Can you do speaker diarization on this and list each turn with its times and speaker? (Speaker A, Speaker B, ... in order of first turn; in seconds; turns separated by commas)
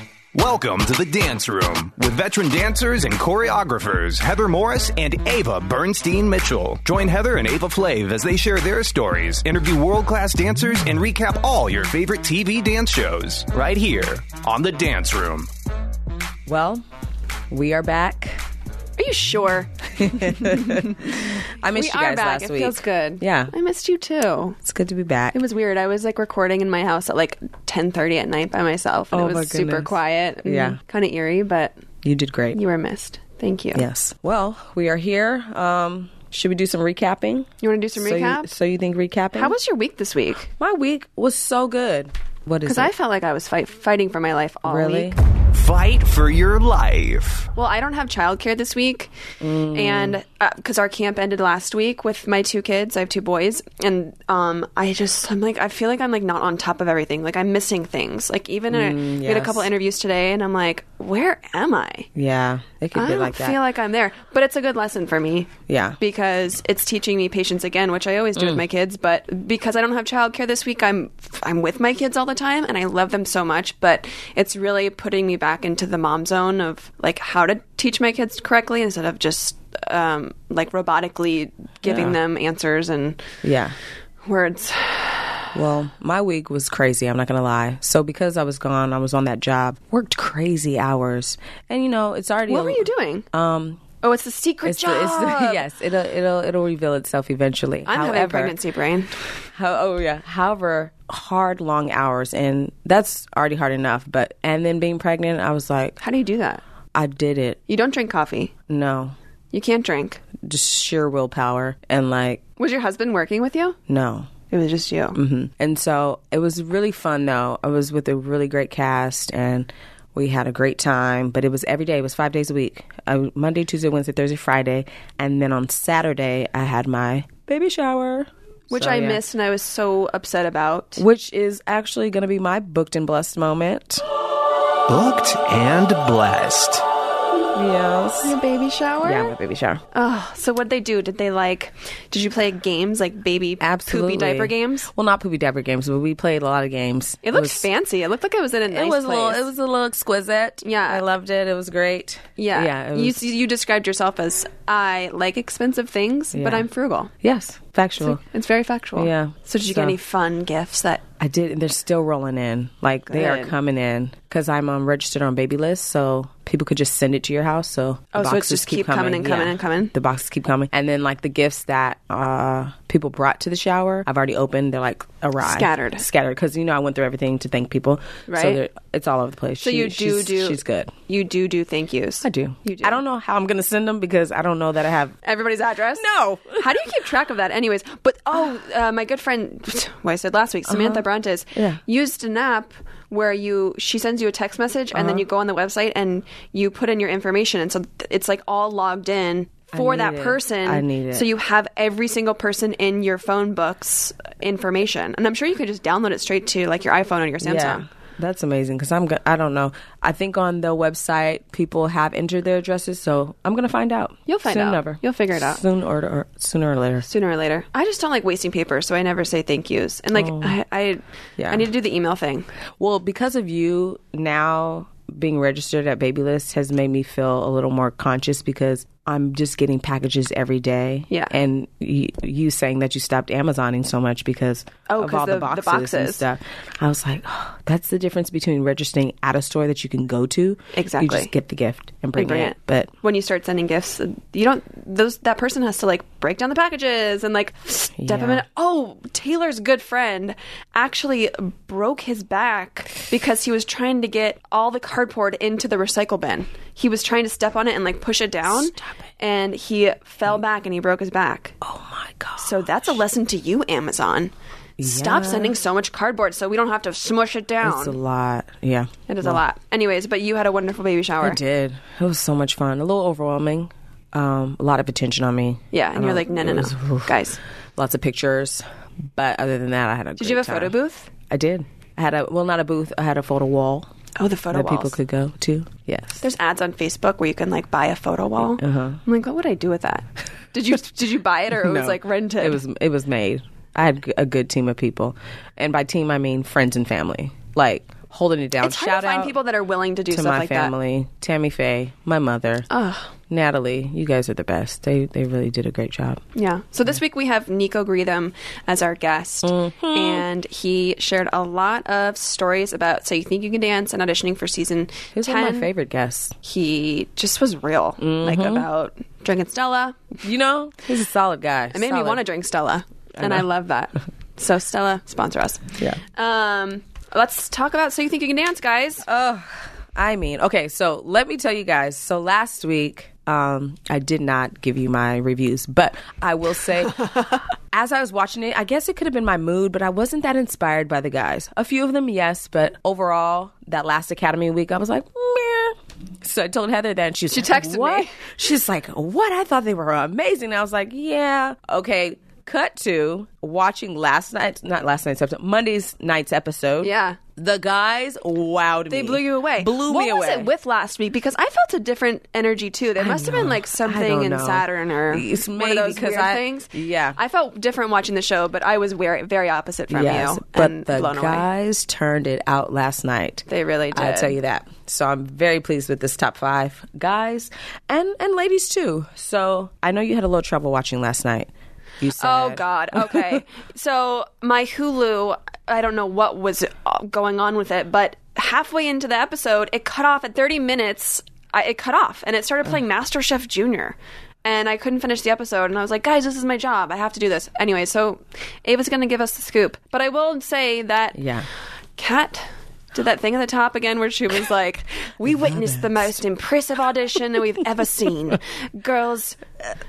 Speaker A: 0.3-15.5, Speaker B: 16.4-16.8, Speaker B: 17.5-18.4, Speaker C: 19.0-24.6, Speaker B: 20.0-23.5, Speaker B: 24.6-25.4, Speaker C: 25.3-31.7, Speaker B: 29.1-30.8, Speaker B: 32.0-32.6, Speaker C: 32.5-33.9, Speaker B: 33.7-39.5, Speaker C: 37.6-38.5, Speaker C: 39.3-40.5, Speaker B: 40.6-42.9, Speaker C: 42.6-45.1, Speaker B: 44.6-45.2, Speaker A: 45.5-47.5, Speaker C: 47.5-49.1, Speaker B: 49.4-50.2, Speaker C: 49.7-62.1, Speaker B: 58.7-59.7, Speaker B: 62.1-63.6, Speaker C: 62.9-83.2, Speaker B: 65.7-66.0, Speaker B: 68.3-68.6, Speaker B: 81.8-82.2, Speaker B: 83.4-83.8, Speaker C: 84.2-85.5, Speaker B: 85.5-93.8, Speaker C: 92.5-93.2, Speaker C: 94.0-95.6, Speaker B: 94.6-98.5, Speaker C: 97.8-99.1, Speaker B: 99.5-106.0, Speaker C: 106.0-106.6, Speaker B: 106.9-107.6, Speaker C: 107.7-108.5, Speaker B: 108.7-109.1, Speaker C: 109.5-110.2, Speaker B: 110.4-112.4, Speaker C: 112.6-113.8, Speaker B: 113.9-114.3, Speaker C: 114.5-115.2, Speaker B: 115.1-129.2, Speaker C: 128.7-131.0, Speaker B: 131.0-134.0, Speaker A: 134.9-136.8, Speaker B: 137.5-138.3, Speaker C: 138.2-139.3, Speaker B: 139.0-139.8, Speaker C: 139.9-144.9, Speaker B: 143.6-147.7, Speaker C: 147.2-149.5, Speaker B: 148.7-153.2, Speaker C: 150.6-151.0, Speaker C: 152.3-157.1, Speaker B: 156.3-156.7, Speaker B: 157.2-158.2, Speaker C: 158.0-161.0, Speaker B: 158.9-159.9, Speaker B: 161.2-180.9, Speaker C: 163.1-163.5, Speaker C: 168.1-169.9, Speaker C: 175.4-176.0, Speaker C: 178.3-178.6, Speaker C: 179.6-183.0, Speaker B: 182.2-185.2, Speaker C: 185.2-207.8, Speaker B: 185.9-186.7, Speaker B: 190.7-191.8, Speaker B: 194.9-195.2, Speaker B: 199.7-201.3, Speaker B: 207.4-217.1, Speaker C: 214.3-215.6, Speaker C: 217.0-222.5, Speaker B: 220.1-220.6, Speaker B: 221.4-221.7, Speaker B: 222.8-242.9, Speaker C: 234.9-236.2, Speaker C: 240.7-241.3, Speaker C: 242.2-261.5, Speaker B: 248.0-248.4, Speaker B: 258.5-258.9, Speaker B: 261.6-262.9, Speaker C: 262.4-268.0, Speaker B: 264.8-265.6, Speaker B: 267.6-269.4, Speaker C: 269.1-271.4, Speaker B: 271.2-277.2, Speaker C: 275.7-277.4, Speaker B: 277.8-280.8, Speaker C: 280.2-281.1, Speaker B: 281.3-283.9, Speaker C: 284.2-285.0, Speaker B: 284.5-286.2, Speaker C: 286.2-292.6, Speaker B: 288.6-289.0, Speaker B: 291.6-299.4, Speaker C: 298.6-300.7, Speaker B: 300.1-302.7, Speaker C: 302.7-303.1, Speaker B: 303.3-306.2, Speaker C: 306.4-315.7, Speaker B: 309.4-310.2, Speaker B: 315.1-316.3, Speaker C: 316.4-320.2, Speaker B: 318.0-318.6, Speaker B: 320.2-322.2, Speaker C: 321.7-329.1, Speaker B: 323.2-323.5, Speaker B: 329.1-337.0, Speaker B: 337.7-360.5, Speaker C: 347.3-348.1, Speaker C: 356.8-357.2, Speaker C: 358.9-371.4, Speaker B: 363.0-367.2, Speaker B: 369.9-383.4, Speaker C: 373.5-374.4, Speaker C: 382.2-401.2, Speaker B: 401.1-401.5, Speaker C: 402.0-409.4, Speaker B: 405.3-406.1